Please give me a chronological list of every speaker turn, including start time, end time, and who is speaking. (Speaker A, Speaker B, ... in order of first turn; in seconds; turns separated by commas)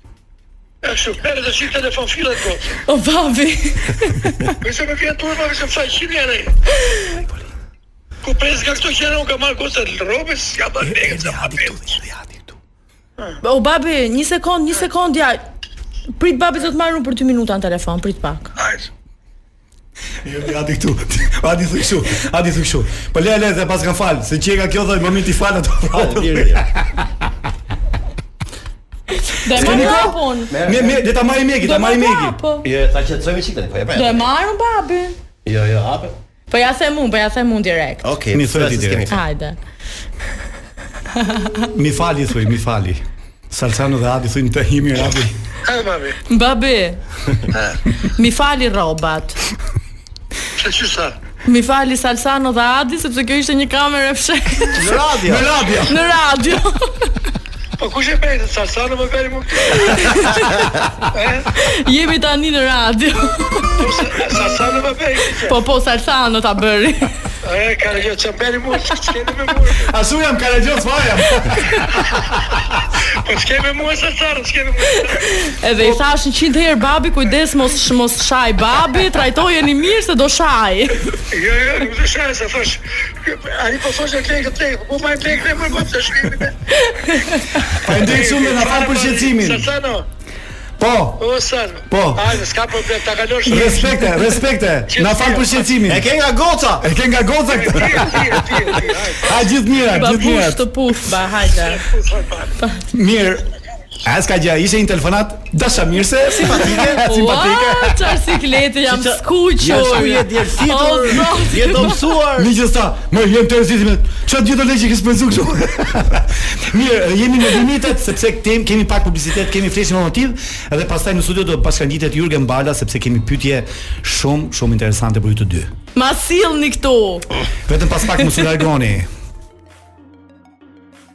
Speaker A: 0.8-2.8, Speaker B: 2.9-4.6, Speaker A: 4.6-6.5, Speaker B: 6.8-7.2, Speaker A: 8.2-11.8, Speaker C: 10.8-12.6, Speaker B: 13.4-15.4, Speaker B: 16.2-18.5, Speaker A: 18.6-18.9, Speaker C: 20.2-27.0, Speaker D: 25.9-26.7, Speaker B: 29.1-30.5, Speaker C: 29.5-32.4, Speaker D: 29.6-31.0, Speaker B: 31.6-32.6, Speaker D: 32.6-34.2, Speaker B: 33.9-35.2, Speaker D: 35.4-36.1, Speaker B: 36.5-38.1, Speaker D: 38.0-39.2, Speaker C: 38.3-39.1, Speaker B: 39.1-39.6, Speaker B: 41.1-41.7, Speaker C: 41.7-45.4, Speaker A: 45.6-46.2, Speaker B: 46.3-47.0, Speaker A: 47.5-47.8, Speaker B: 48.0-49.4, Speaker A: 50.6-51.1, Speaker B: 51.4-55.0, Speaker D: 54.7-55.5, Speaker C: 55.2-56.0, Speaker B: 55.9-57.2, Speaker A: 57.8-60.4, Speaker B: 59.9-60.6, Speaker A: 61.1-61.5, Speaker B: 61.5-64.5, Speaker A: 63.8-65.6, Speaker B: 65.3-67.1, Speaker A: 67.4-69.9, Speaker C: 69.8-72.6, Speaker A: 73.1-75.3, Speaker B: 75.0-81.0, Speaker A: 81.3-86.6, Speaker B: 86.9-87.5, Speaker C: 87.8-89.7, Speaker A: 87.9-90.0, Speaker C: 90.8-91.2, Speaker A: 91.2-94.2, Speaker C: 91.9-92.4, Speaker C: 93.5-96.1, Speaker A: 94.9-95.7, Speaker D: 95.9-96.9, Speaker C: 96.8-100.7, Speaker A: 97.5-99.4, Speaker B: 99.9-101.9, Speaker A: 101.5-102.6, Speaker C: 102.9-103.5, Speaker C: 104.0-108.2, Speaker B: 106.4-112.0, Speaker D: 106.4-107.0, Speaker D: 108.9-112.5, Speaker C: 112.4-125.7, Speaker B: 125.9-127.3, Speaker C: 127.7-129.1